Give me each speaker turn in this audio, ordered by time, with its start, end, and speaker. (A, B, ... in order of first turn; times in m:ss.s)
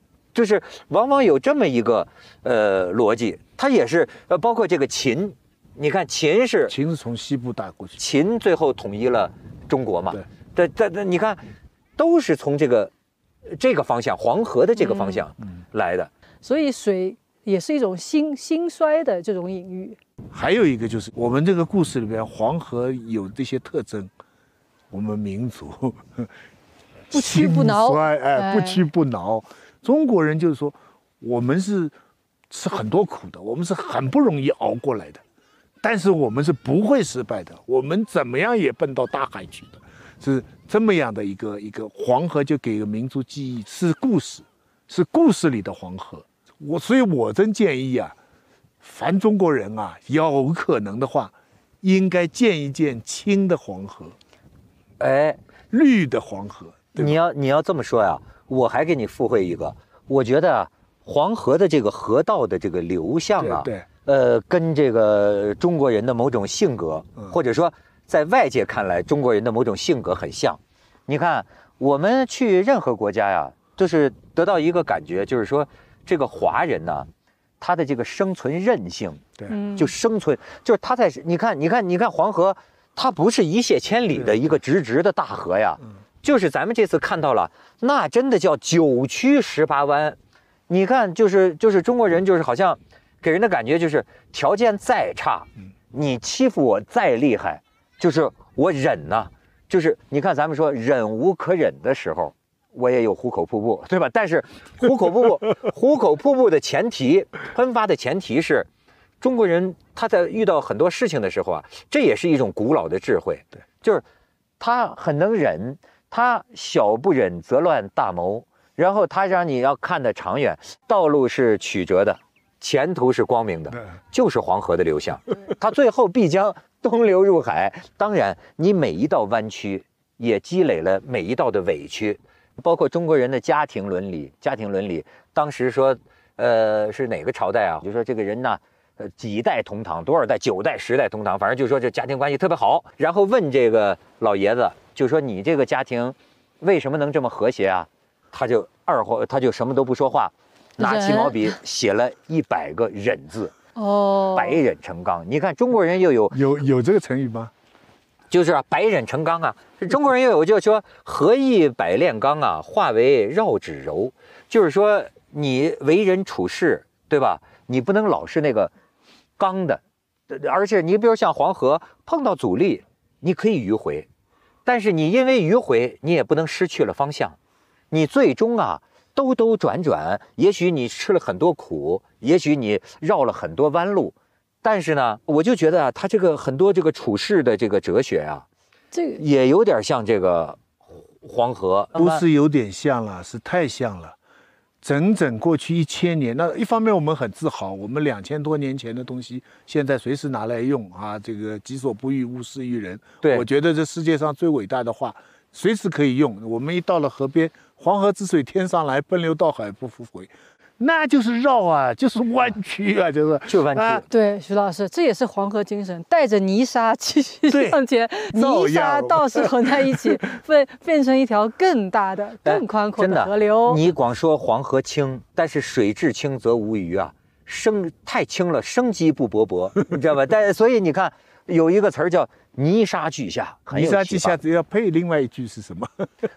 0:00.3-0:06.7 A
0:06.7-0:08.0 B
0:08.0-0:11.4 A
0:12.0-0:12.9 A
0:13.4-0:16.1 A
0:14.8-0:15.2 C
0:16.4-0:20.0 C
0:20.3-0:24.1 B
0:24.9-0:26.3 B
0:27.1-0:31.9 B
0:27.1-0:28.8 C
0:32.5-0:35.2 B
0:35.8-0:48.2 B
0:48.8-0:54.2 B
0:55.0-0:55.4 A
0:55.7-0:57.2 B
0:57.0-1:17.1 A
1:03.4-1:03.8 B
1:17.6-1:30.2 A
1:19.5-1:19.9 C
1:30.7-1:48.7 A
1:49.2-1:54.0 A
1:54.6-2:33.5 A
2:30.8-2:31.6 C
2:33.8-2:34.6 C
2:34.3-2:36.4 A
2:36.3-2:37.5 B
2:38.3-2:48.7 A
2:49.4-2:54.1 A
2:54.6-2:57.4 A
2:57.9-3:08.4 A
3:08.9-3:09.2 C
3:09.2-3:10.6 A
3:11.2-3:12.2 A
3:12.0-3:14.2 B
3:14.8-3:34.0 B
3:33.5-3:34.0 A
3:34.1-3:43.8 C
3:37.5-3:40.2 B
3:42.4-3:54.4 A
3:53.7-3:56.1 B